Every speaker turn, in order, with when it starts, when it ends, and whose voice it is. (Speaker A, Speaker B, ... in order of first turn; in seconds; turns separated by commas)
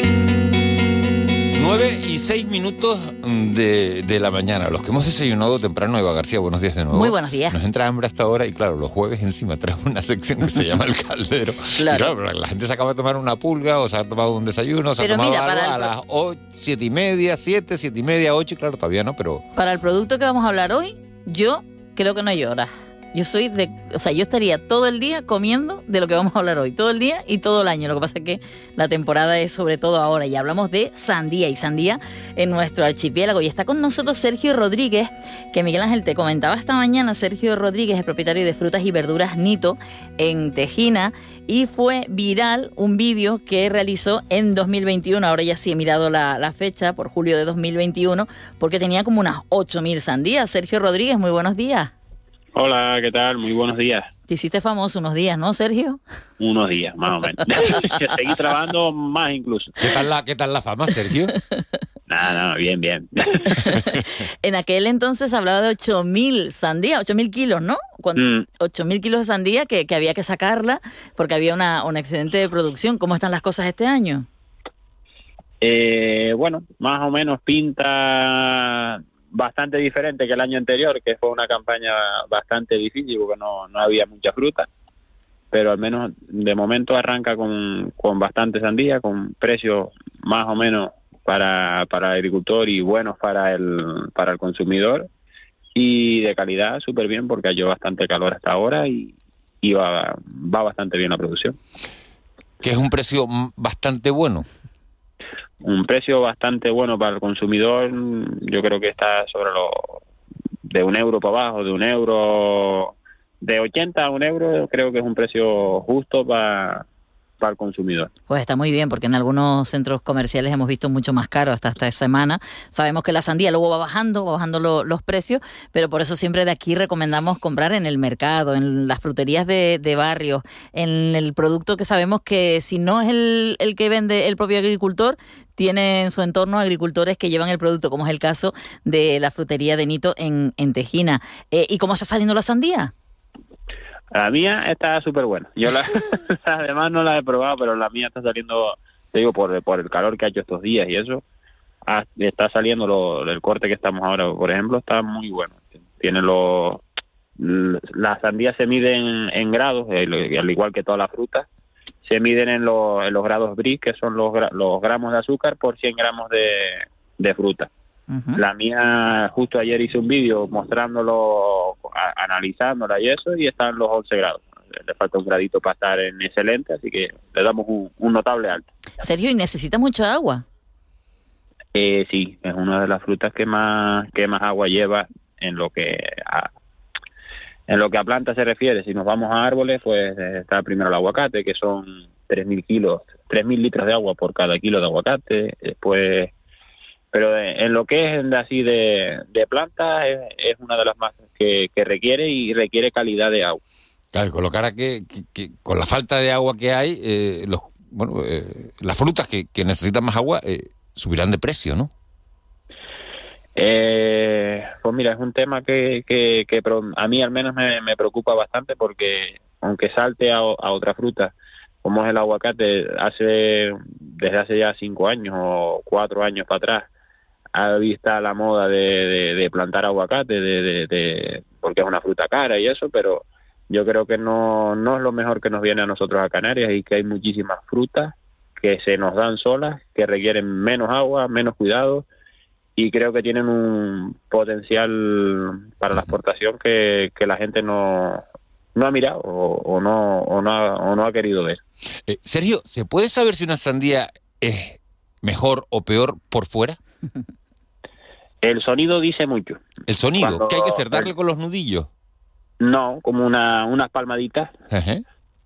Speaker A: 1.5-19.4, Speaker B: 6.9-7.6, Speaker B: 11.8-12.1, Speaker B: 15.0-15.9, Speaker B: 19.6-51.9, Speaker C: 52.5-54.1, Speaker B: 54.3-56.0, Speaker C: 56.4-59.7, Speaker A: 59.8-61.3, Speaker C: 62.1-63.7, Speaker B: 63.5-74.2, Speaker C: 68.2-68.4, Speaker C: 75.6-84.7, Speaker C: 85.5-95.1, Speaker C: 95.7-101.5, Speaker A: 102.6-104.5, Speaker C: 105.6-110.0, Speaker C: 110.7-116.8, Speaker C: 117.4-118.1, Speaker B: 118.3-142.9, Speaker C: 144.1-151.2, Speaker C: 151.8-156.8, Speaker C: 157.4-161.4, Speaker C: 162.0-167.7, Speaker B: 168.1-168.4, Speaker C: 168.3-178.6, Speaker B: 179.0-180.4, Speaker C: 181.7-186.5, Speaker C: 187.7-196.3, Speaker C: 197.1-203.6, Speaker A: 204.1-211.9, Speaker C: 213.6-221.3, Speaker C: 221.8-226.9, Speaker C: 227.5-242.1, Speaker C: 242.8-248.2, Speaker C: 248.8-251.6, Speaker A: 252.1-256.8, Speaker C: 258.4-259.6, Speaker A: 259.9-261.9, Speaker C: 260.2-261.1, Speaker C: 262.6-264.5, Speaker A: 264.7-265.0